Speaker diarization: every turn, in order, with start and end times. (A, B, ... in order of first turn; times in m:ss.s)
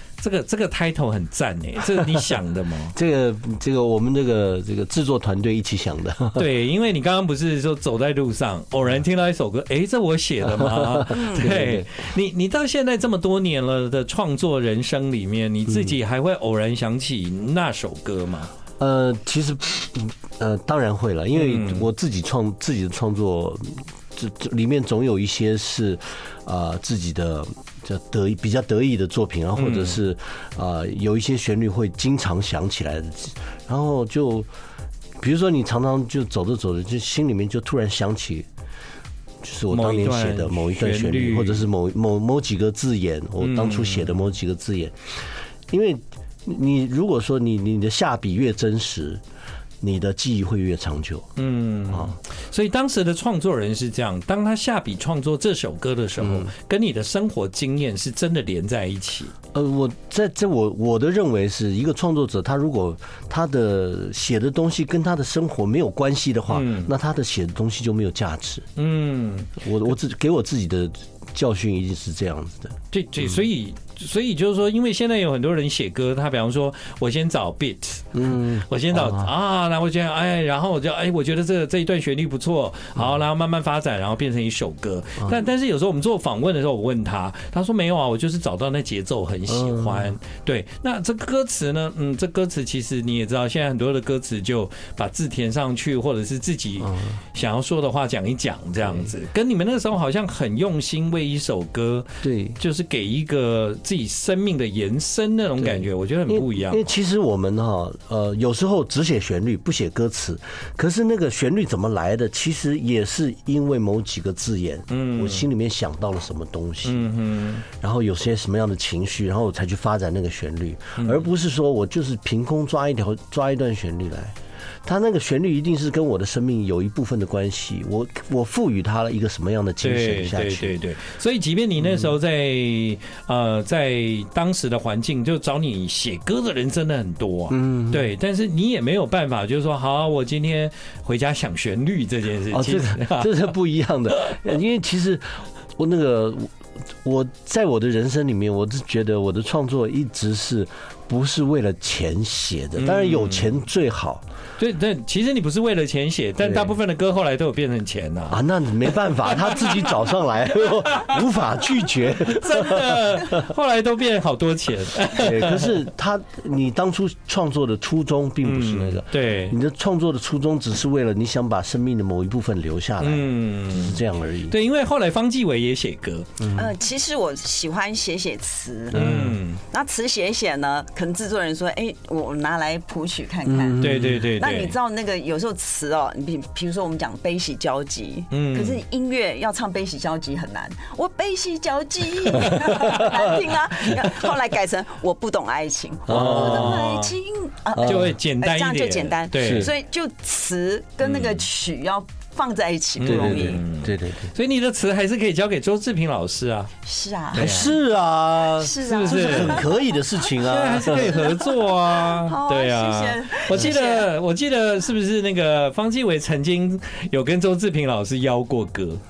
0:00.2-0:03.0 A
0:02.9-0:06.4 B
0:06.4-0:18.5 A
0:10.4-0:11.9 B
0:11.1-0:11.6 C
0:15.7-0:16.0 B
0:18.8-0:34.5 B
0:21.4-0:21.9 A
0:29.6-0:30.0 A
0:35.2-0:38.5 B
0:39.4-0:45.0 B
0:39.7-0:41.7 A
0:43.4-0:44.1 A
0:45.7-0:49.2 B
0:49.8-0:51.3 B
0:51.4-0:59.3 A
0:56.2-0:56.5 B
0:59.5-1:08.6 B
1:06.5-1:06.9 A
1:08.8-1:09.6 A
1:09.6-1:12.8 B
1:12.9-1:47.0 A
1:18.1-1:19.3 B
1:29.5-1:30.1 B
1:42.2-1:42.6 B
1:45.6-1:57.1 B
1:54.9-1:55.5 A
1:56.8-1:57.7 A
1:57.7-2:04.3 B
2:01.0-2:01.3 A
2:04.8-2:10.8 B
2:09.8-2:23.3 A
2:11.8-2:12.1 B
2:17.5-2:18.1 B
2:22.5-2:26.5 B
2:27.0-2:34.2 B
2:32.8-2:33.6 A
2:34.6-2:38.4 A
2:36.4-2:36.7 B
2:38.3-2:43.4 B
2:39.0-2:39.9 A
2:42.2-2:45.8 A
2:45.2-2:54.6 B
2:48.4-2:49.6 A
2:53.0-2:56.3 A
2:56.4-2:56.7 B
2:56.6-2:59.0 C
2:58.9-2:59.4 B
2:58.9-2:59.6 A
2:59.6-3:03.8 C
3:03.5-3:04.3 B
3:03.8-3:04.7 A
3:04.4-3:23.6 C
3:08.3-3:08.8 A
3:12.5-3:13.2 B
3:16.1-3:16.8 B
3:16.1-3:17.1 A
3:17.8-3:18.2 B
3:17.8-3:19.7 A
3:19.4-3:19.7 B
3:21.0-3:21.4 A
3:23.0-3:24.3 B
3:23.0-3:26.7 A
3:26.8-3:27.6 C
3:27.3-3:27.7 A
3:27.3-3:31.2 B
3:28.6-3:29.9 C
3:28.8-3:29.6 A
3:30.4-3:39.0 A
3:30.8-3:34.1 C